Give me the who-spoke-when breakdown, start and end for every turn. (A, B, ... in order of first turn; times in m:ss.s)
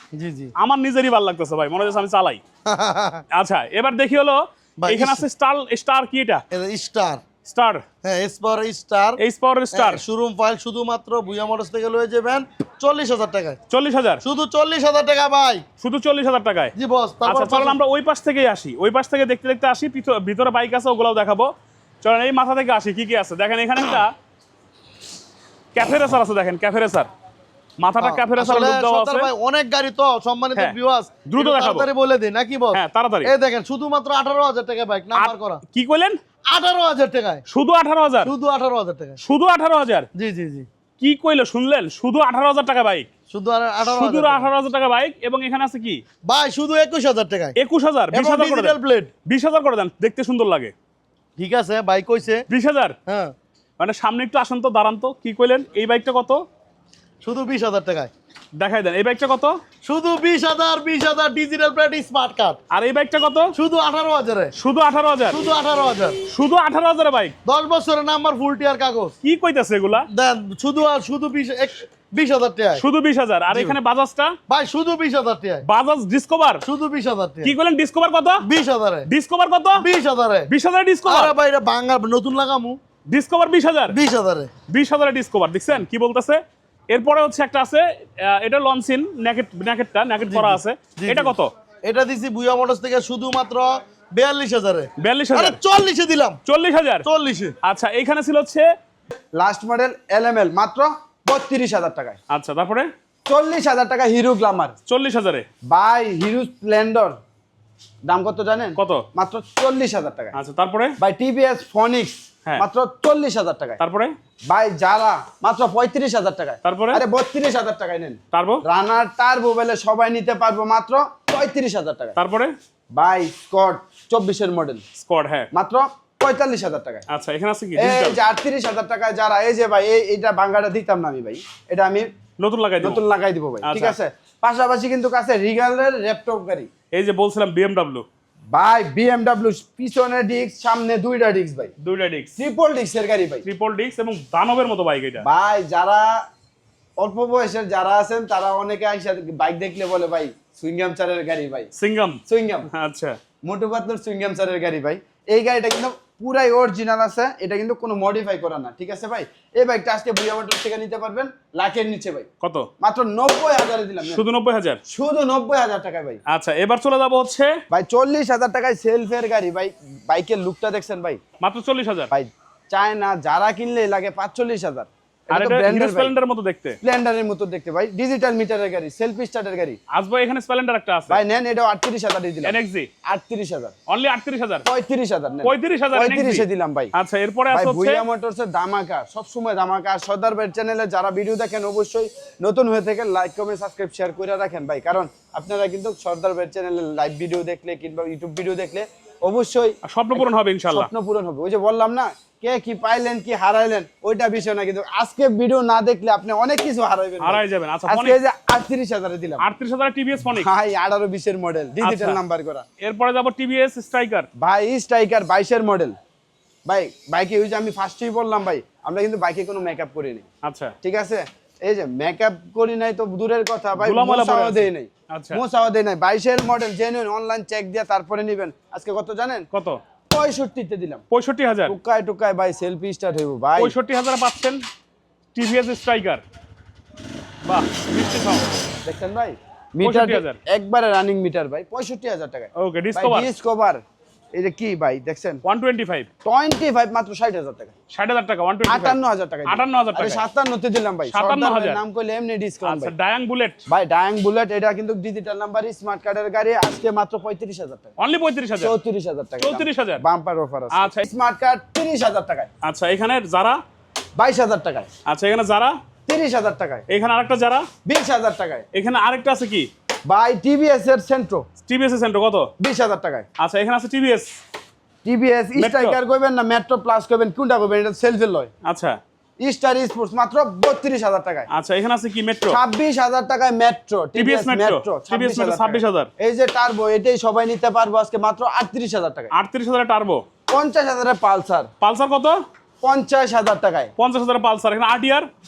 0:00.1-0:00.5 A
0:00.6-0:02.4 B
0:02.7-0:03.2 A
0:03.3-0:06.4 B
0:04.8-0:05.2 A
0:06.5-0:07.2 A
0:07.4-0:07.8 B
0:08.0-0:09.2 A
0:09.2-0:10.0 B
0:09.7-0:13.6 A
0:13.7-0:14.2 B
0:14.2-0:15.6 A
0:15.8-0:16.7 B
0:16.8-0:17.8 A
0:17.2-0:24.1 B
0:25.8-0:27.1 B
0:27.8-0:29.3 B
0:28.0-0:35.6 A
0:30.6-0:31.9 B
0:32.7-0:33.3 B
0:35.2-0:36.2 B
0:36.5-0:37.4 A
0:37.5-0:38.3 B
0:38.2-0:39.2 A
0:39.2-0:40.1 B
0:40.2-0:40.7 A
0:41.0-0:43.1 B
0:43.3-0:44.5 A
0:43.9-0:46.0 B
0:46.3-0:47.6 A
0:47.6-0:50.7 B
0:48.1-0:49.1 A
0:51.4-0:52.5 A
0:52.5-0:53.0 B
0:53.1-0:53.3 A
0:53.8-0:56.4 B
0:57.2-0:58.1 A
0:58.6-0:59.6 B
0:59.8-1:02.6 A
1:02.7-1:03.5 B
1:03.5-1:04.5 A
1:04.6-1:05.4 B
1:05.3-1:06.2 A
1:06.3-1:07.3 B
1:07.5-1:09.2 A
1:09.2-1:10.1 B
1:10.1-1:12.8 A
1:12.8-1:14.4 B
1:14.5-1:15.6 A
1:15.6-1:16.6 B
1:16.6-1:17.5 A
1:17.4-1:18.4 B
1:18.4-1:19.1 A
1:19.1-1:19.8 B
1:19.8-1:20.5 A
1:20.5-1:21.3 B
1:21.1-1:22.8 A
1:23.1-1:24.0 B
1:23.9-1:24.5 A
1:24.7-1:31.5 B
1:30.3-1:31.3 A
1:31.8-1:36.4 A
1:35.0-1:35.6 B
1:36.5-1:37.1 B
1:37.0-1:37.5 A
1:37.6-1:38.7 B
1:39.3-1:42.2 C
1:42.3-1:42.9 B
1:43.3-1:44.8 C
1:44.9-1:45.5 B
1:45.7-1:47.2 C
1:48.1-1:50.4 C
1:48.8-1:49.0 B
1:50.3-1:51.0 B
1:51.0-1:53.8 C
1:53.8-1:54.1 B
1:54.5-2:02.2 C
1:56.6-1:57.0 B
1:58.3-1:58.6 B
2:02.2-2:02.5 B
2:02.9-2:04.8 C
2:05.0-2:05.5 B
2:05.5-2:07.0 C
2:07.1-2:08.2 B
2:07.8-2:12.1 C
2:12.4-2:13.0 B
2:12.8-2:16.7 C
2:13.6-2:14.0 B
2:16.9-2:18.0 B
2:18.5-2:21.7 C
2:21.8-2:22.4 B
2:22.4-2:23.4 C
2:23.4-2:25.3 B
2:25.2-2:26.3 C
2:27.0-2:31.7 C
2:31.8-2:33.2 B
2:32.3-2:32.7 C
2:33.4-2:42.3 C
2:42.4-2:42.7 B
2:42.8-2:44.2 C
2:44.0-2:44.8 B
2:44.9-2:46.2 C
2:46.3-2:47.6 B
2:47.7-2:51.2 C
2:51.4-2:52.1 B
2:52.1-2:56.1 C
2:55.3-2:56.8 B
2:56.8-2:59.8 C
2:59.9-3:01.2 B
3:01.1-3:03.7 C
3:02.4-3:02.9 B
3:03.9-3:04.7 B
3:04.7-3:06.9 C
3:05.4-3:08.0 B
3:07.5-3:29.5 C
3:19.8-3:20.9 B
3:27.2-3:28.2 B
3:29.4-3:30.5 B
3:30.4-3:32.7 C
3:31.8-3:32.2 B
3:32.8-3:34.3 B
3:34.4-3:36.0 C
3:36.7-3:40.3 C
3:40.4-3:40.7 B
3:40.8-3:49.5 C
3:43.8-3:45.4 B
3:49.5-3:49.8 B
3:50.1-3:51.0 C
3:51.1-3:51.8 B
3:51.7-3:53.8 C
3:53.6-3:54.6 B
3:55.4-3:56.2 B
3:57.4-3:58.5 B
3:58.8-4:03.8 C
3:59.8-4:00.4 B
4:02.6-4:03.3 B
4:04.4-4:05.4 C
4:05.4-4:06.1 B
4:06.2-4:07.8 C
4:07.9-4:10.2 B
4:08.7-4:12.9 C
4:11.1-4:11.8 B
4:12.6-4:13.6 B
4:13.7-4:17.9 C
4:18.0-4:18.8 B
4:18.6-4:22.5 C
4:19.4-4:20.0 B
4:20.7-4:21.0 B
4:22.6-4:23.6 B
4:24.2-4:24.9 C
4:25.1-4:25.8 B
4:26.1-4:26.9 C
4:26.9-4:27.7 B
4:27.8-4:28.7 C
4:28.7-4:29.7 B
4:30.1-4:31.5 C
4:31.7-4:32.5 B
4:32.6-4:33.3 C
4:33.4-4:34.3 B
4:35.0-4:38.5 C
4:35.6-4:36.0 B
4:38.7-4:39.0 B
4:39.4-4:41.5 C
4:41.5-4:42.6 B
4:42.5-4:49.3 C
4:44.2-4:46.1 B
4:49.3-4:50.2 B
4:50.5-4:51.7 C
4:51.8-4:52.4 B
4:52.8-4:53.9 C
4:54.0-4:55.3 B